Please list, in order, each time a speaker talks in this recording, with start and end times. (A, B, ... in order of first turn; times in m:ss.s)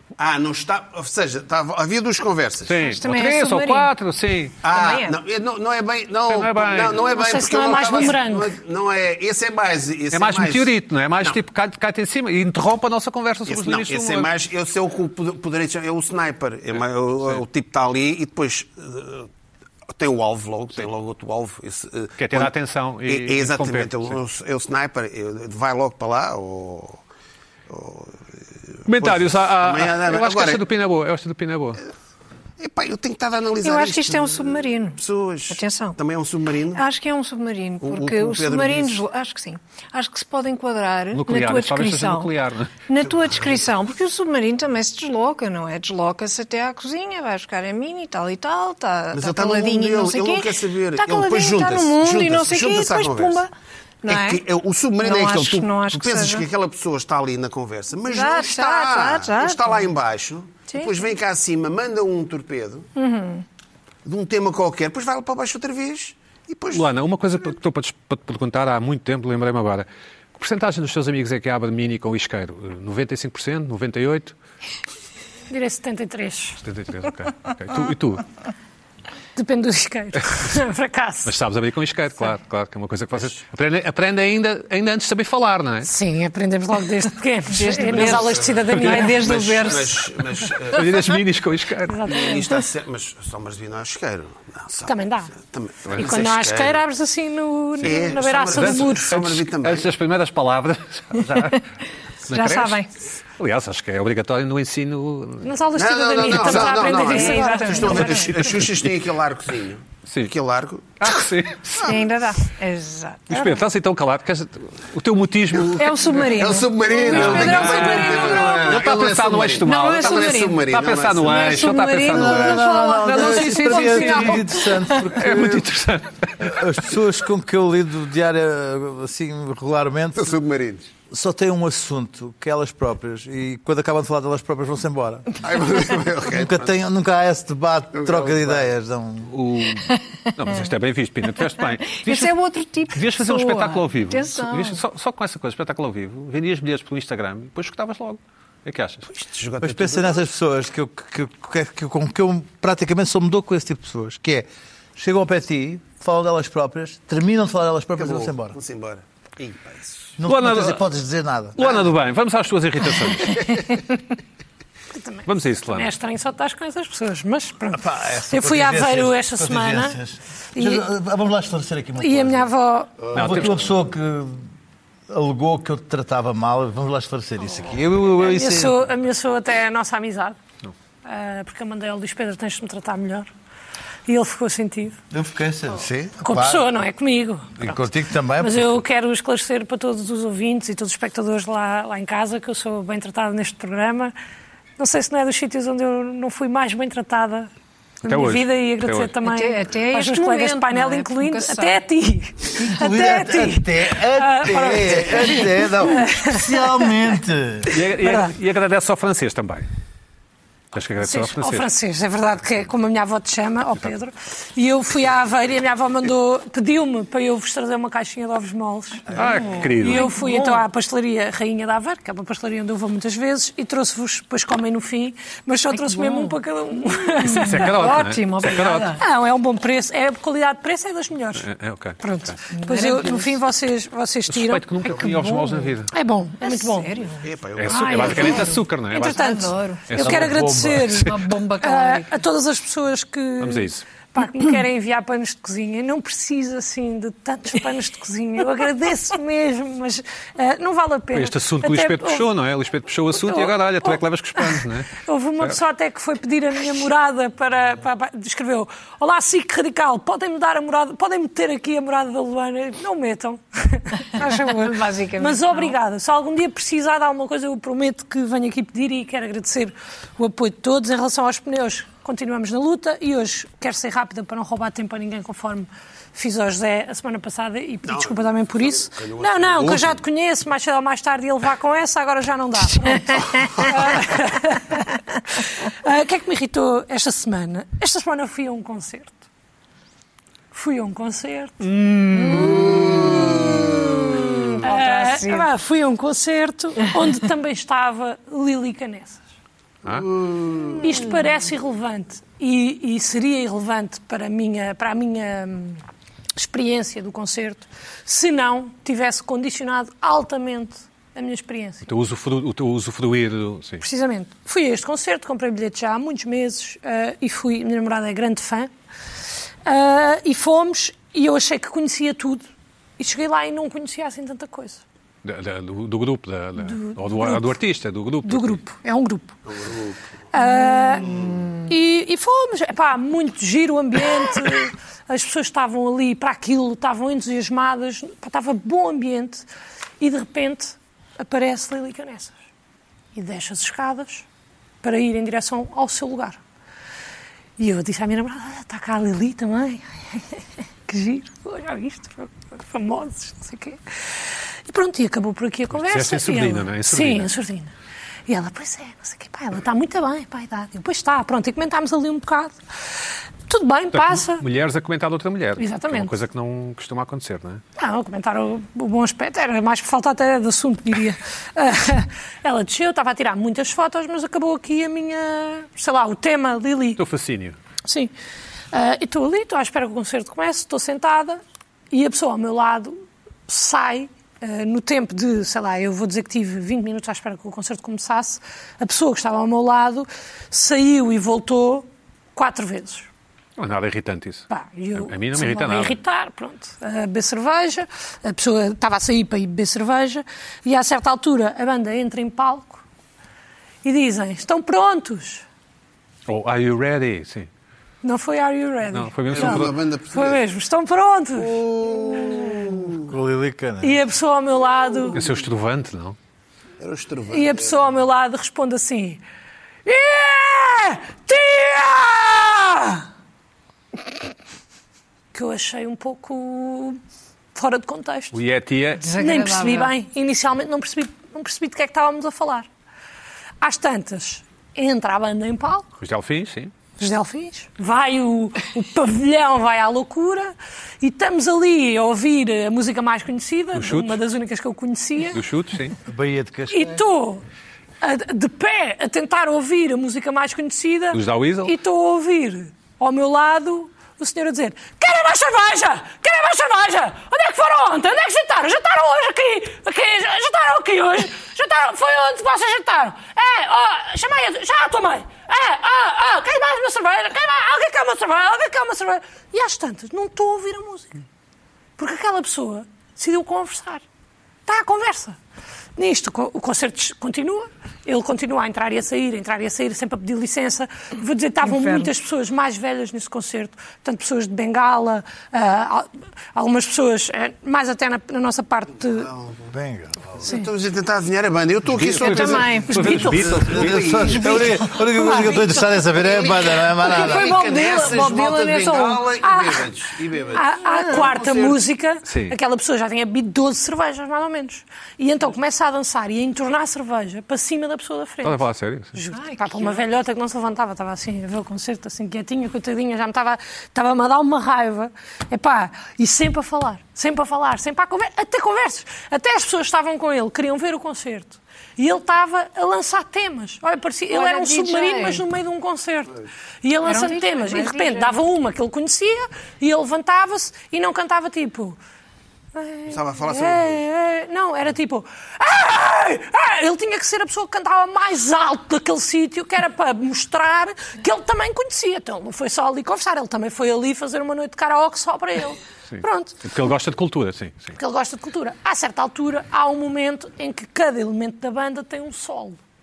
0:00.2-0:02.8 A
0:02.7-0:04.6 B
0:02.8-0:03.9 C
0:04.6-0:10.7 A
0:04.7-0:05.2 C
0:06.3-0:07.0 B
0:07.0-0:08.6 D
0:10.1-0:14.3 B
0:13.5-0:19.3 A
0:19.9-0:22.5 A
0:22.2-0:24.2 B
0:23.1-0:27.0 A
0:27.7-0:28.2 A
0:28.7-0:30.6 A
0:28.9-0:31.8 B
0:32.6-0:36.8 A
0:33.6-0:36.0 C
0:36.7-0:42.3 C
0:37.8-0:39.0 A
0:41.1-0:42.8 B
0:42.9-0:53.5 C
0:49.1-0:53.4 A
0:54.0-0:54.4 C
0:54.1-1:02.9 A
0:55.0-0:56.5 C
0:58.1-0:59.9 C
1:00.7-1:01.1 C
1:03.0-1:03.4 C
1:04.0-1:06.9 A
1:06.7-1:14.4 B
1:15.5-1:16.6 D
1:16.6-1:18.3 B
1:19.4-1:21.4 D
1:21.2-1:25.9 B
1:25.8-1:29.3 D
1:27.5-1:30.1 C
1:28.1-1:31.2 A
1:28.7-1:29.1 B
1:30.6-1:32.1 B
1:31.9-1:32.5 D
1:32.1-1:36.8 A
1:34.9-1:35.3 D
1:36.0-1:39.2 D
1:37.8-1:41.6 B
1:37.8-1:39.9 A
1:42.3-1:42.9 B
1:42.3-1:42.9 C
1:43.4-1:45.5 B
1:45.4-1:48.5 D
1:45.8-1:51.2 A
1:46.3-1:48.3 C
1:50.1-1:50.3 B
1:51.0-1:52.0 B
1:51.8-1:53.3 C
1:53.3-1:56.4 B
1:53.3-1:53.6 D
1:55.8-1:58.6 C
1:56.2-2:01.8 A
1:57.0-1:58.7 D
1:57.1-2:06.6 B
1:59.6-2:00.6 C
2:01.2-2:04.4 C
2:02.1-2:05.7 E
2:03.3-2:04.0 D
2:06.4-2:10.3 E
2:10.2-2:10.9 A
2:11.1-2:15.4 E
2:15.4-2:16.7 A
2:16.3-2:19.3 E
2:17.9-2:18.7 A
2:19.3-2:22.3 B
2:22.0-2:24.8 C
2:22.9-2:29.1 B
2:29.1-2:30.2 A
2:29.6-2:38.6 E
2:38.0-2:40.2 A
2:40.2-2:41.8 E
2:40.2-2:40.8 B
2:41.6-2:43.6 B
2:44.9-2:50.0 D
2:45.3-2:45.9 B
2:47.7-2:52.5 E
2:50.6-2:50.9 D
2:52.0-2:53.0 D
2:53.0-2:53.3 A
2:53.1-2:54.5 E
2:53.1-2:53.6 B
2:55.1-2:58.8 E
2:58.2-3:00.4 D
3:01.0-3:03.3 D
3:04.1-3:05.0 D
3:05.1-3:06.7 E
3:05.8-3:06.1 A
3:06.2-3:07.8 D
3:07.6-3:08.8 E
3:08.4-3:14.1 D
3:14.8-3:17.5 D
3:18.0-3:26.9 D
3:18.0-3:19.1 B
3:19.2-3:21.8 C
3:22.6-3:27.8 E
3:27.7-3:29.7 B
3:28.0-3:28.3 D
3:30.7-3:31.7 B
3:31.0-3:39.2 D
3:39.1-3:39.7 A
3:39.1-3:40.1 B
3:39.3-3:40.6 C
3:39.8-3:47.8 D
3:45.7-3:46.4 C
3:47.2-3:49.0 C
3:47.4-3:49.0 B
3:49.0-3:51.5 D
3:51.4-3:52.4 B
3:52.0-3:54.8 D
3:52.5-3:53.4 C
3:54.3-3:55.9 B
3:55.1-3:55.4 C
3:55.9-3:57.0 D
3:56.4-4:00.1 C
3:57.2-3:58.5 A
3:57.6-4:01.1 B
3:57.8-4:12.3 D
4:00.0-4:01.0 E
4:01.0-4:02.1 C
4:03.4-4:03.8 B
4:11.1-4:15.6 B
4:13.2-4:49.2 D
4:24.2-4:25.8 C
4:37.8-4:40.0 A
4:43.2-4:43.6 C
4:50.5-4:51.6 D
4:51.6-4:53.0 B
4:52.1-4:55.5 C
4:52.7-4:53.2 A
4:54.6-4:59.2 D
4:59.8-5:00.1 B
5:00.1-5:00.8 A
5:00.8-5:05.8 D
5:06.4-5:11.9 D
5:11.8-5:13.8 B
5:13.8-5:18.7 D
5:19.6-5:22.5 D
5:23.0-5:24.8 D
5:25.2-5:28.6 B
5:26.6-5:27.6 D
5:28.2-5:29.3 D
5:29.5-5:30.0 A
5:30.3-5:39.5 D
5:30.7-5:31.3 C
5:40.0-5:42.3 D
5:43.1-5:44.2 D
5:44.8-5:46.4 D
5:47.6-5:57.7 D
5:55.7-5:57.3 B
5:58.3-6:02.6 D
6:03.5-6:04.4 D
6:03.9-6:07.6 B
6:05.6-6:06.2 D
6:07.8-6:17.0 D
6:17.0-6:17.6 B
6:17.9-6:18.1 D
6:18.7-6:33.1 D
6:33.6-6:36.0 B
6:34.5-6:42.8 D
6:43.8-6:45.4 D
6:46.3-6:47.5 B
6:48.0-6:51.6 D
6:48.9-6:49.8 B
6:49.3-6:50.4 A
6:51.4-6:53.1 A
6:53.0-6:54.0 E
6:53.8-6:55.2 D
6:55.1-6:56.2 B
6:56.8-6:57.8 A
6:57.3-6:59.2 D
6:59.8-7:03.1 D
7:05.3-7:07.0 D
7:07.6-7:08.4 D
7:08.3-7:09.1 B
7:09.0-7:09.9 C
7:09.1-7:12.7 D
7:13.6-7:15.9 D
7:16.0-7:16.7 B
7:17.0-7:25.4 D
7:23.8-7:24.2 B
7:25.3-7:26.0 B
7:26.1-7:27.0 E
7:26.7-7:27.4 D
7:28.0-7:51.2 D
7:31.1-7:31.7 B
7:52.0-7:54.0 D
7:54.7-7:55.4 D
7:56.0-8:09.3 D
8:01.6-8:02.1 C
8:09.2-8:09.7 A
8:09.7-8:10.4 E
8:10.4-8:14.8 A
8:11.9-8:14.1 B
8:12.2-8:13.1 C
8:12.9-8:13.6 D
8:13.4-8:17.6 E
8:14.3-8:15.7 C
8:16.2-8:21.8 A
8:17.1-8:19.2 C
8:19.4-8:19.9 D
8:20.5-8:52.0 D
8:20.9-8:21.2 C
8:22.3-8:22.6 B
8:28.4-8:29.2 B
8:29.3-8:30.0 C
8:44.3-8:45.4 C
8:47.0-8:48.4 C
8:52.7-9:06.6 D
8:53.1-8:54.0 A
9:06.1-9:08.0 B
9:08.0-9:12.8 D